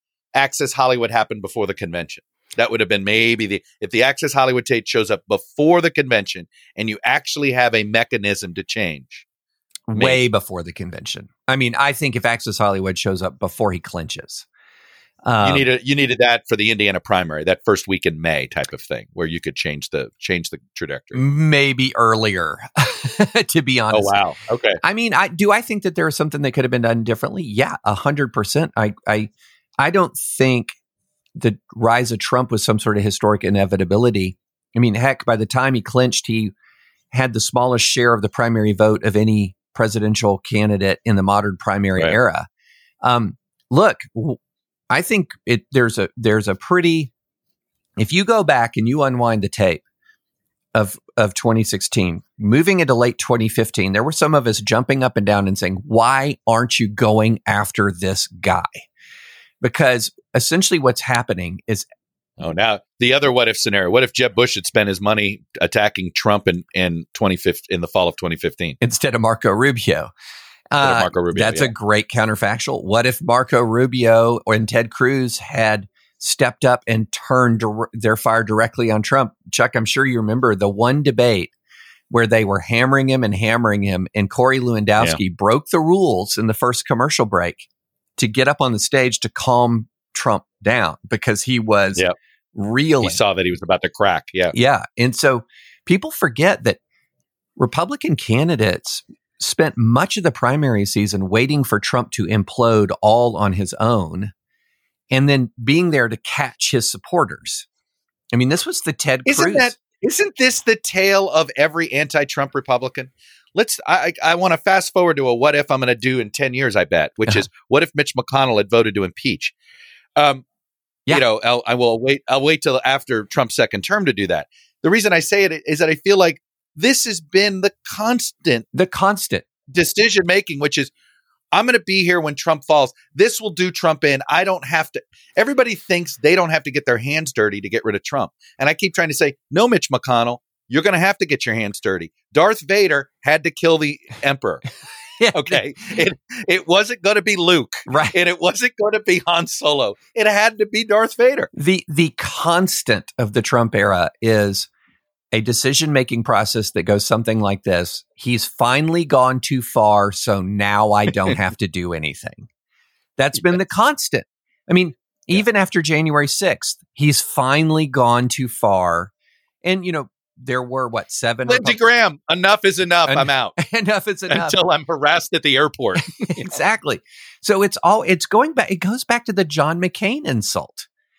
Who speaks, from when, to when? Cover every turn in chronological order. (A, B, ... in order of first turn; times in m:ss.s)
0:00.4-0:09.3 A
0:09.9-0:14.5 B
0:09.9-0:10.2 A
0:15.2-0:15.6 B
0:15.4-0:21.2 A
0:21.2-0:24.1 B
0:23.9-0:24.8 A
0:24.8-0:30.8 B
0:31.4-0:36.5 B
0:37.1-0:42.5 B
0:43.0-0:44.4 B
0:44.9-0:47.1 B
0:48.0-0:49.8 B
0:50.7-0:58.9 B
0:59.6-1:01.9 B
1:02.4-1:08.8 A
1:08.8-1:10.1 B
1:10.7-1:21.5 B
1:10.8-1:11.7 A
1:22.1-1:33.2 B
1:33.0-1:34.6 A
1:34.5-1:36.8 B
1:37.6-1:44.3 B
1:45.1-1:47.7 B
1:48.3-1:49.7 B
1:49.3-1:59.5 A
2:00.2-2:00.4 A
2:01.1-2:08.7 A
2:08.7-2:09.4 B
2:09.7-2:10.9 A
2:11.5-2:24.6 A
2:25.2-2:25.6 B
2:25.3-2:31.5 A
2:27.9-2:28.2 B
2:31.6-2:34.7 B
2:35.3-2:42.5 B
2:43.2-2:49.1 B
2:49.6-2:51.8 B
2:51.5-2:53.6 A
2:53.1-2:54.6 B
2:54.3-2:56.5 A
2:56.3-3:00.9 B